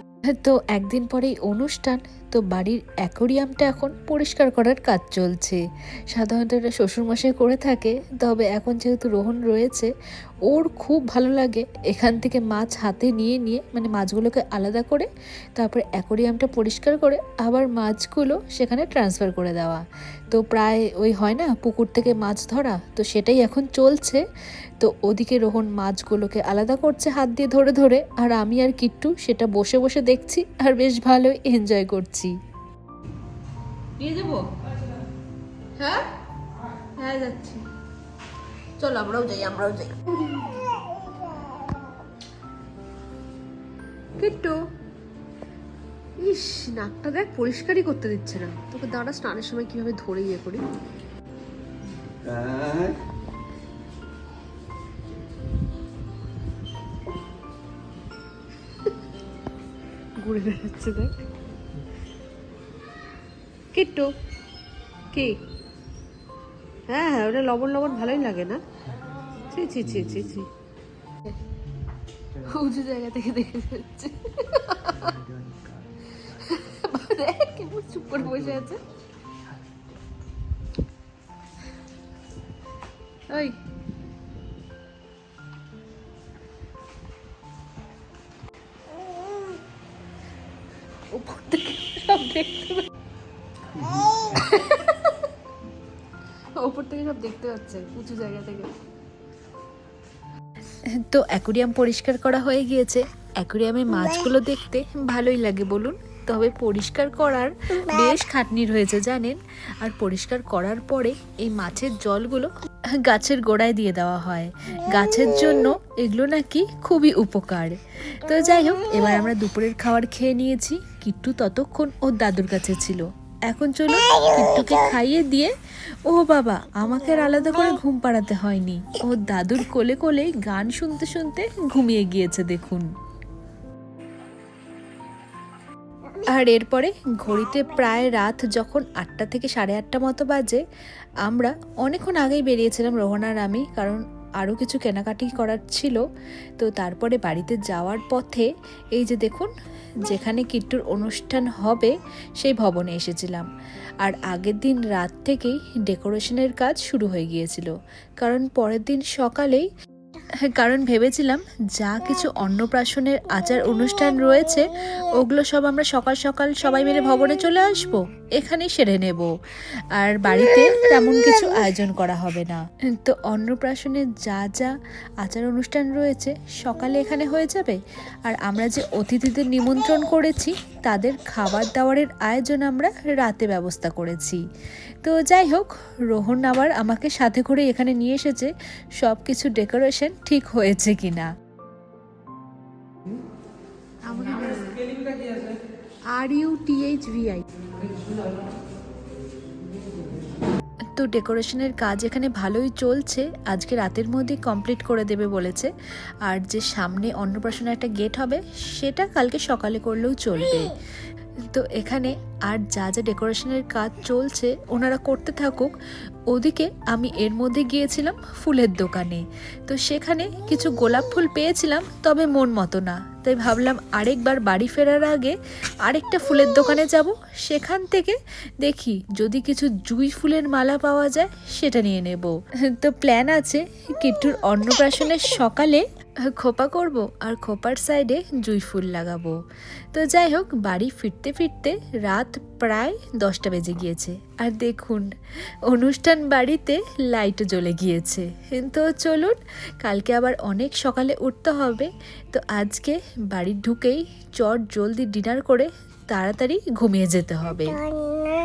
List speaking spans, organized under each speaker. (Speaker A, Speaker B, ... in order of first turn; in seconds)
Speaker A: 0.3-9.9, 10.5-24.2, 24.8-32.4, 101.0-125.5, 126.1-132.9, 136.2-140.6, 141.2-146.0, 146.6-153.5, 154.0-159.7, 160.4-169.3, 169.9-184.4, 185.0-191.3, 201.0-205.7, 206.2-210.8, 211.5-215.8, 216.3-239.4, 239.9-245.1, 245.7-257.8
Speaker B: 34.0-34.5, 35.8-36.1, 37.0-37.6, 38.8-40.4, 44.2-44.6, 46.2-50.6, 60.2-61.1, 63.7-64.1, 65.1-65.4, 66.9-68.6, 69.5-70.5, 72.4-75.2, 76.2-78.8, 83.3-83.6, 91.1-92.8, 94.3-95.0, 96.6-98.7, 194.1-194.8, 196.1-197.4
Speaker C: 52.2-53.0, 69.8-70.4, 75.0-75.8, 78.2-78.6, 93.8-94.1